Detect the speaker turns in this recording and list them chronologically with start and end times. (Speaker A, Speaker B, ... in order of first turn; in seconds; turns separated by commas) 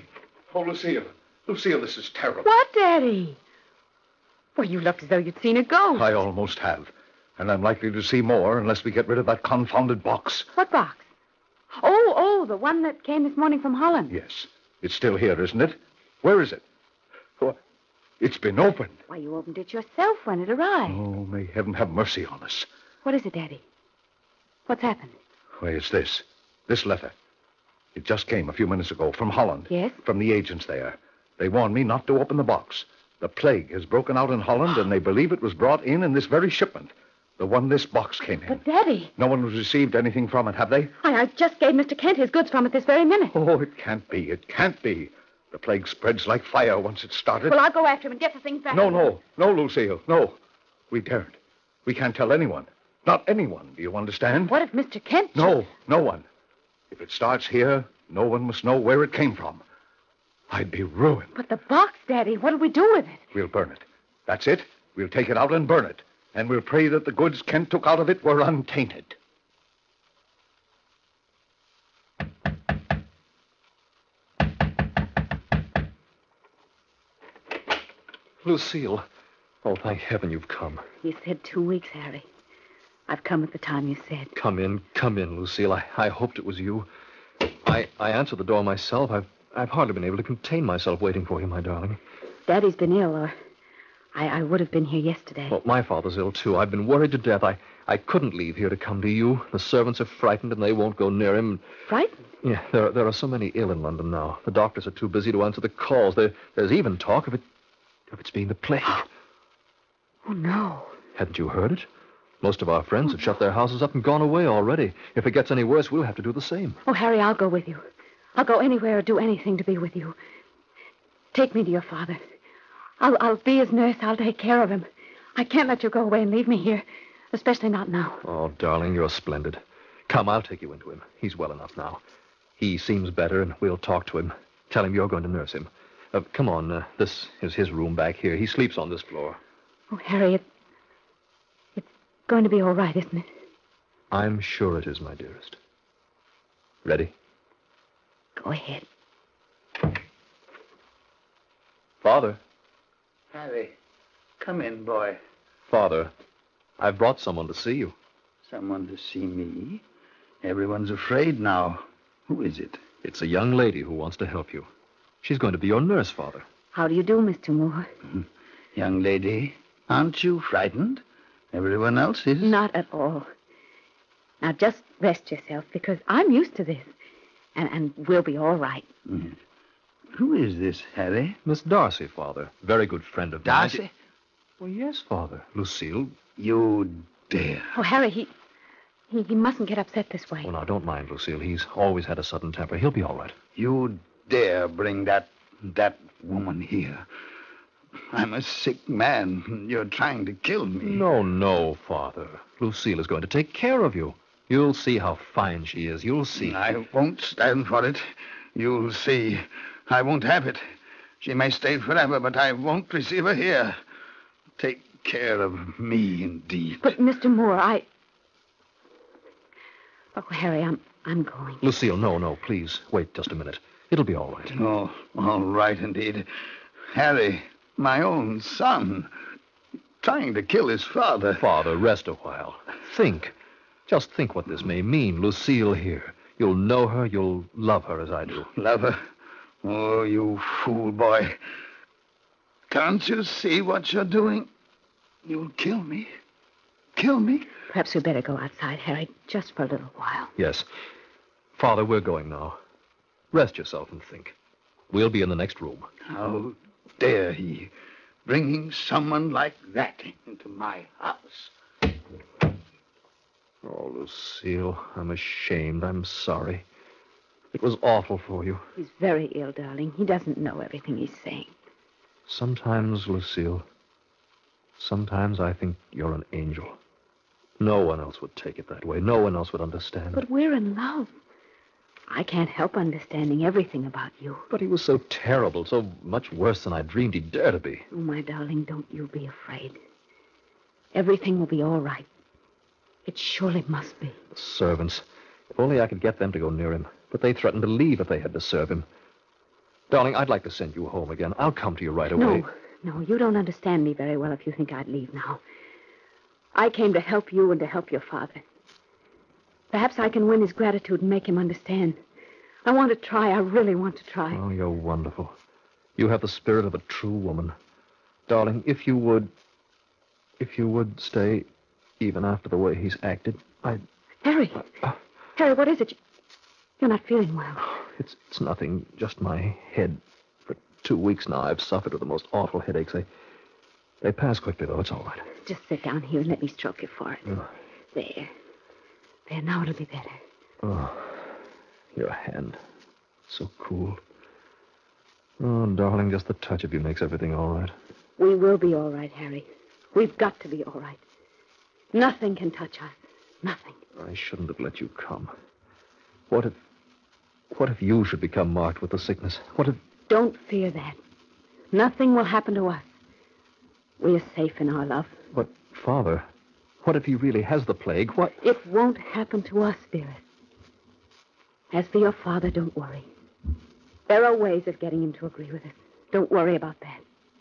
Speaker A: 0.5-2.5, Speaker B: 2.4-3.4, Speaker B: 4.5-6.2, Speaker A: 5.9-10.5, Speaker B: 10.6-11.0, Speaker B: 11.7-14.1, Speaker A: 14.1-16.6, Speaker A: 18.2-19.0, Speaker B: 19.1-21.0, Speaker A: 20.9-22.7, Speaker B: 23.0-23.6, Speaker B: 24.7-25.1, Speaker A: 25.6-27.1, Speaker A: 27.9-38.6, Speaker B: 29.7-30.0, Speaker B: 38.5-39.1, Speaker A: 39.2-40.9, Speaker B: 41.0-43.3, Speaker A: 43.3-47.6, Speaker B: 47.4-49.1, Speaker A: 48.7-50.4, Speaker A: 50.9-54.5, Speaker B: 54.4-55.6, Speaker A: 55.3-56.2, Speaker A: 56.9-59.6, Speaker A: 60.5-61.3, Speaker B: 61.3-63.2, Speaker A: 63.3-69.2, Speaker C: 78.4-79.0, Speaker C: 79.6-80.8, Speaker B: 81.0-82.2, Speaker B: 83.1-84.3, Speaker C: 84.3-86.9, Speaker C: 87.4-92.0, Speaker B: 92.5-93.3, Speaker B: 94.1-95.6, Speaker C: 95.5-101.6, Speaker B: 101.9-102.3, Speaker C: 102.4-107.4, Speaker C: 108.1-109.1, Speaker B: 110.2-111.0, Speaker C: 111.1-111.9, Speaker C: 112.4-116.8, Speaker B: 116.8-117.8, Speaker B: 118.3-120.2, Speaker B: 121.3-122.2, Speaker B: 123.0-128.2, Speaker C: 128.2-132.0, Speaker C: 132.6-139.4, Speaker B: 139.9-140.4, Speaker B: 141.8-143.3, Speaker C: 144.1-145.6, Speaker C: 146.8-147.1, Speaker B: 148.4-148.8, Speaker C: 152.0-152.4, Speaker D: 153.3-153.8, Speaker D: 154.4-155.2, Speaker C: 155.7-156.1, Speaker C: 156.8-157.9, Speaker D: 158.4-159.8, Speaker D: 160.4-162.8, Speaker C: 163.0-164.7, Speaker C: 165.2-166.4, Speaker B: 166.7-167.9, Speaker D: 168.7-172.5, Speaker B: 172.4-173.3, Speaker B: 174.4-176.9, Speaker B: 177.5-178.9, Speaker D: 179.1-179.4, Speaker D: 180.1-181.4, Speaker C: 181.4-183.8, Speaker D: 183.4-183.9, Speaker C: 184.6-186.2, Speaker D: 186.3-187.7, Speaker B: 187.7-188.3, Speaker B: 189.1-190.5, Speaker C: 190.4-193.4, Speaker D: 193.5-197.1, Speaker D: 198.1-201.0, Speaker C: 200.8-206.6, Speaker D: 206.4-210.6, Speaker D: 211.2-213.8, Speaker D: 214.6-216.8, Speaker B: 216.8-217.9, Speaker B: 220.2-221.6, Speaker C: 221.6-224.6, Speaker D: 224.5-226.3, Speaker D: 226.9-229.1, Speaker D: 230.0-231.4, Speaker C: 231.4-233.3, Speaker C: 233.9-238.5, Speaker D: 238.4-239.0, Speaker D: 239.6-241.4, Speaker D: 242.7-244.5, Speaker D: 245.2-246.1, Speaker D: 246.9-247.5, Speaker B: 247.7-250.3, Speaker C: 250.3-250.7, Speaker C: 251.6-252.6, Speaker C: 253.3-254.3, Speaker C: 254.9-255.9, Speaker D: 256.1-257.7, Speaker D: 258.2-261.5, Speaker C: 263.6-266.6, Speaker C: 267.5-268.6, Speaker B: 268.8-271.5, Speaker C: 272.3-273.6, Speaker C: 274.8-276.8, Speaker C: 277.6-280.2, Speaker B: 280.1-281.1, Speaker B: 282.1-284.5, Speaker C: 284.5-287.9, Speaker B: 287.9-289.8, Speaker B: 290.9-292.1, Speaker B: 293.1-294.2, Speaker C: 294.3-298.9, Speaker C: 299.9-302.4, Speaker B: 302.1-305.4, Speaker B: 306.5-308.4, Speaker B: 309.7-312.0, Speaker B: 312.6-314.4, Speaker C: 314.3-315.3, Speaker C: 316.0-317.5, Speaker C: 318.3-319.3, Speaker C: 320.4-321.5, Speaker C: 322.0-323.8, Speaker B: 324.2-324.6, Speaker B: 325.4-326.0, Speaker B: 326.8-327.7, Speaker C: 327.6-333.1, Speaker C: 334.0-335.2, Speaker B: 335.4-337.2, Speaker B: 337.9-338.3, Speaker B: 339.3-340.2, Speaker C: 340.6-341.3, Speaker C: 341.9-342.6, Speaker C: 343.3-344.0, Speaker C: 345.4-347.7, Speaker B: 348.2-351.0, Speaker B: 351.9-353.8, Speaker C: 353.9-355.3, Speaker C: 356.3-356.6, Speaker C: 357.5-359.8, Speaker B: 360.1-361.0, Speaker B: 361.7-362.8, Speaker B: 364.0-365.1, Speaker C: 365.3-366.3, Speaker C: 366.8-368.4, Speaker B: 368.4-370.2, Speaker B: 371.7-373.1, Speaker B: 374.1-377.0